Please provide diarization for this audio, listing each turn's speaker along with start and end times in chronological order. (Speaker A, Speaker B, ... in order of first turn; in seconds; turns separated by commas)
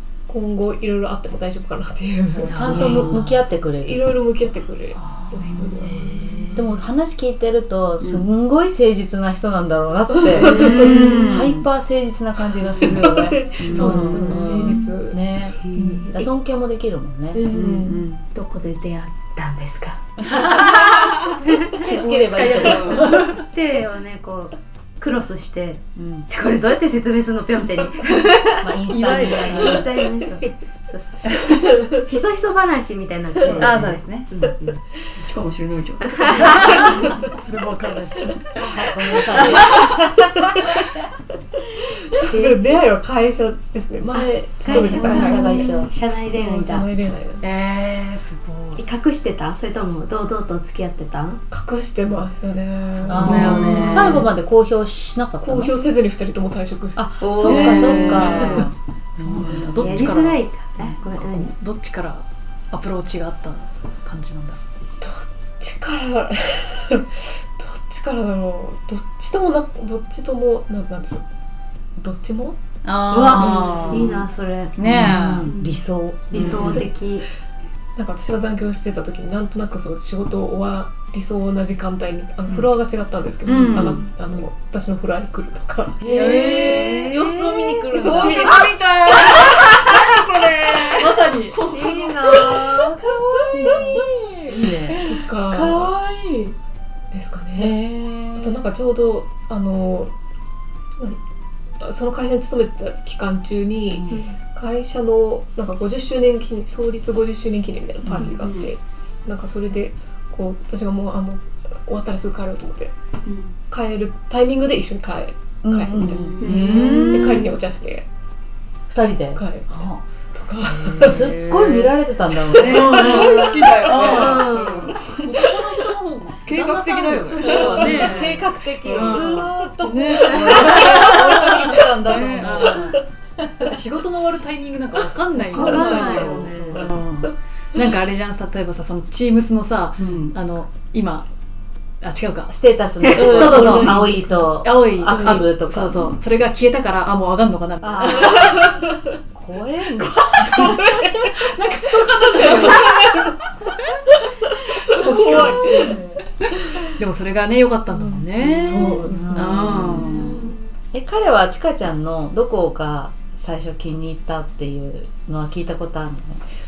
Speaker A: 0.3-3.3, Speaker B: 2.4-3.4, Speaker C: 2.4-4.0, Speaker A: 3.8-6.1, Speaker B: 5.0-6.7, Speaker C: 6.5-17.5, Speaker D: 8.0-8.2, Speaker A: 10.2-11.2, Speaker B: 10.4-11.6, Speaker E: 10.4-11.0, Speaker D: 10.9-11.3, Speaker A: 13.1-15.2, Speaker B: 13.6-14.6, Speaker D: 13.7-13.9, Speaker A: 15.7-16.2, Speaker E: 15.8-16.1, Speaker A: 17.3-18.0, Speaker D: 17.5-17.9, Speaker B: 17.9-18.2, Speaker E: 18.3-20.0, Speaker B: 20.2-21.2, Speaker E: 21.4-21.9, Speaker C: 21.8-23.3, Speaker B: 22.0-23.4, Speaker D: 22.4-23.1, Speaker E: 23.4-34.8, Speaker C: 25.9-26.3, Speaker C: 28.6-29.9, Speaker B: 28.9-29.9, Speaker B: 31.2-31.6, Speaker B: 33.4-34.3, Speaker A: 33.4-33.7, Speaker D: 35.2-36.9, Speaker E: 36.1-36.8, Speaker B: 36.3-38.6, Speaker C: 38.5-40.6, Speaker B: 39.2-39.9, Speaker A: 42.0-45.7, Speaker E: 42.3-42.8, Speaker E: 44.1-46.9, Speaker C: 44.7-45.9, Speaker A: 46.3-47.4, Speaker B: 47.4-48.8, Speaker E: 48.8-51.4, Speaker A: 51.5-53.9, Speaker B: 53.1-54.3, Speaker C: 53.1-55.7, Speaker D: 53.2-54.1, Speaker A: 55.4-57.2, Speaker C: 57.0-60.0, Speaker E: 57.2-58.6, Speaker D: 57.4-58.2, Speaker B: 57.5-58.6, Speaker A: 58.0-58.6, Speaker B: 59.2-64.6, Speaker E: 59.8-61.5, Speaker A: 65.0-71.2, Speaker A: 72.0-72.6, Speaker B: 72.8-74.2, Speaker E: 73.1-77.2, Speaker A: 73.2-74.2, Speaker B: 74.8-75.5, Speaker C: 74.8-76.8, Speaker A: 76.5-76.8, Speaker A: 78.0-86.0, Speaker B: 83.4-84.0, Speaker D: 86.0-87.2, Speaker C: 86.0-88.7, Speaker E: 86.1-88.3, Speaker D: 87.9-93.0, Speaker A: 88.1-88.7, Speaker E: 89.4-89.8, Speaker B: 90.9-91.6, Speaker E: 91.6-93.0, Speaker C: 93.0-95.0, Speaker B: 93.6-94.7, Speaker D: 93.6-93.9, Speaker A: 95.0-95.9, Speaker C: 95.5-95.9, Speaker B: 95.9-96.4, Speaker A: 97.1-97.8, Speaker B: 97.6-98.5, Speaker C: 97.6-98.0, Speaker A: 98.3-100.1, Speaker A: 101.8-112.9, Speaker B: 103.9-104.2, Speaker D: 108.3-108.7, Speaker D: 113.2-113.5, Speaker A: 113.7-118.1, Speaker C: 115.6-117.4, Speaker D: 116.0-117.0, Speaker B: 116.4-117.5, Speaker C: 118.9-119.9, Speaker A: 119.3-121.3, Speaker B: 119.7-120.0, Speaker B: 120.6-121.9, Speaker C: 121.0-123.4, Speaker D: 122.5-125.0, Speaker B: 122.6-129.5, Speaker E: 123.2-125.0, Speaker D: 126.4-132.8, Speaker C: 127.4-133.5, Speaker B: 130.7-131.4, Speaker B: 132.4-133.0, Speaker B: 133.6-141.3, Speaker D: 135.4-136.6, Speaker C: 135.5-136.9, Speaker E: 135.5-136.9, Speaker D: 140.0-140.3, Speaker B: 142.0-142.5, Speaker C: 142.5-146.1, Speaker E: 143.1-144.0, Speaker B: 143.1-148.5, Speaker C: 147.8-151.0, Speaker B: 150.3-153.2, Speaker A: 152.4-152.8, Speaker B: 154.9-156.0, Speaker A: 155.0-156.0, Speaker C: 155.0-156.0, Speaker B: 156.8-160.3, Speaker A: 158.5-160.3, Speaker C: 158.5-166.4, Speaker E: 160.0-160.5